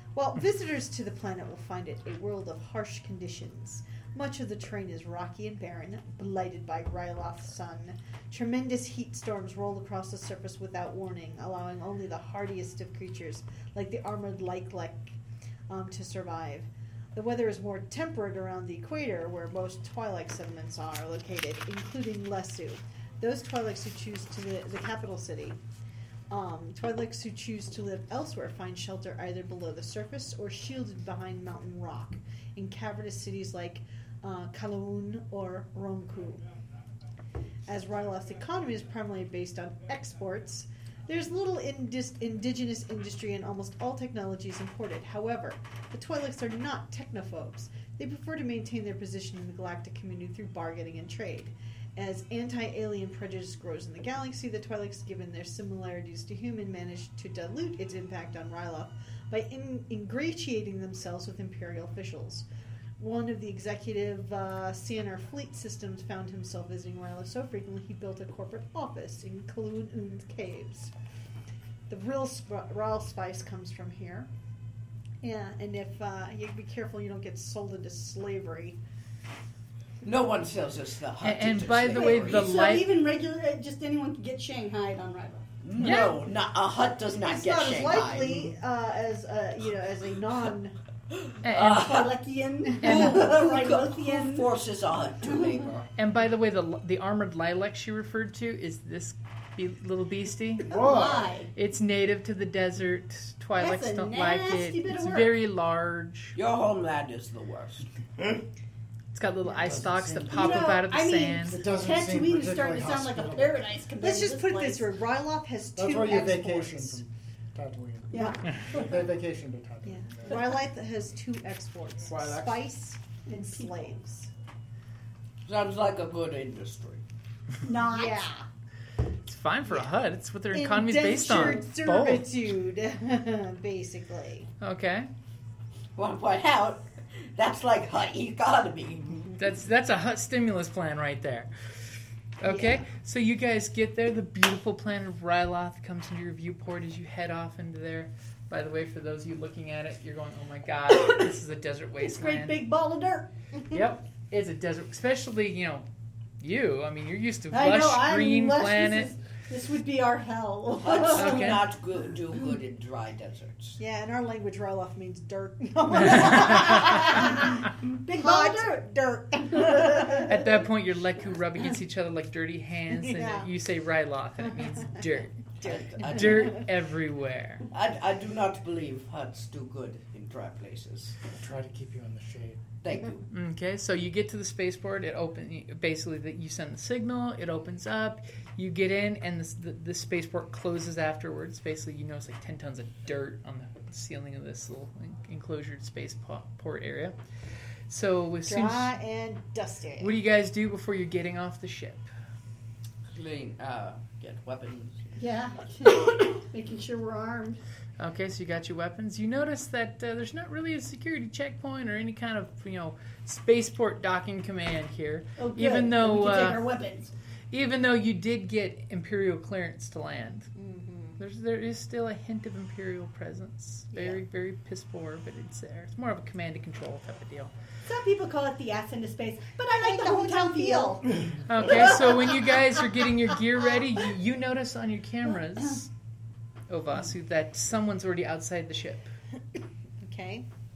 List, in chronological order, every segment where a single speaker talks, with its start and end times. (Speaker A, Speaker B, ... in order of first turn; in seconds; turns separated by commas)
Speaker A: 0.1-15.2, Speaker A: 15.7-25.6, Speaker A: 26.3-36.4, Speaker A: 37.7-62.5, Speaker A: 63.0-70.9, Speaker A: 71.9-74.3, Speaker A: 75.2-78.8, Speaker B: 80.0-82.5, Speaker C: 81.2-83.0, Speaker D: 81.9-85.4, Speaker B: 85.6-88.5, Speaker C: 85.8-86.2, Speaker A: 87.2-90.8, Speaker B: 91.2-92.2, Speaker C: 91.4-91.9, Speaker D: 91.8-94.5, Speaker A: 92.7-93.1, Speaker B: 92.8-95.9, Speaker C: 92.8-93.1, Speaker D: 95.2-95.6, Speaker C: 96.0-100.7, Speaker E: 100.6-101.4, Speaker D: 100.7-101.5, Speaker C: 101.5-106.3, Speaker D: 103.6-105.3, Speaker B: 106.3-108.4, Speaker C: 109.1-111.6, Speaker E: 109.5-110.7, Speaker D: 110.3-114.9, Speaker E: 111.5-113.7, Speaker A: 114.0-117.0, Speaker E: 115.8-120.5, Speaker D: 118.1-119.0, Speaker A: 119.8-124.3, Speaker B: 122.1-122.6, Speaker D: 123.3-123.9, Speaker B: 125.5-127.0, Speaker D: 127.6-128.2, Speaker A: 127.8-128.4, Speaker C: 129.2-132.3, Speaker A: 130.5-134.5, Speaker C: 134.6-135.1, Speaker B: 135.9-139.3, Speaker C: 139.3-141.5, Speaker C: 142.4-152.7, Speaker A: 142.4-142.8, Speaker D: 150.9-151.3, Speaker D: 152.0-153.3, Speaker C: 153.7-155.8, Speaker C: 156.4-159.1, Speaker D: 157.5-161.6, Speaker B: 160.8-163.8, Speaker C: 161.1-161.6, Speaker A: 163.8-170.3, Speaker C: 166.0-167.0, Speaker D: 166.8-167.5, Speaker D: 168.0-168.8, Speaker D: 169.4-170.3, Speaker C: 170.2-175.4, Speaker A: 172.9-173.5, Speaker A: 174.5-176.7, Speaker B: 175.6-176.6, Speaker C: 176.0-177.6, Speaker B: 177.7-181.2, Speaker E: 181.3-182.8, Speaker B: 182.8-183.2, Speaker C: 183.3-197.2, Speaker C: 197.9-198.9, Speaker A: 198.4-200.1, Speaker C: 200.0-202.1, Speaker B: 203.1-205.1, Speaker D: 205.2-207.6, Speaker C: 208.0-216.7, Speaker D: 215.4-217.1, Speaker C: 217.5-220.5, Speaker A: 220.5-221.2, Speaker C: 221.2-227.5, Speaker A: 223.9-224.2, Speaker D: 227.8-231.1, Speaker A: 229.6-231.0, Speaker C: 231.4-235.9, Speaker D: 231.6-232.3, Speaker C: 236.7-239.1, Speaker A: 240.0-240.5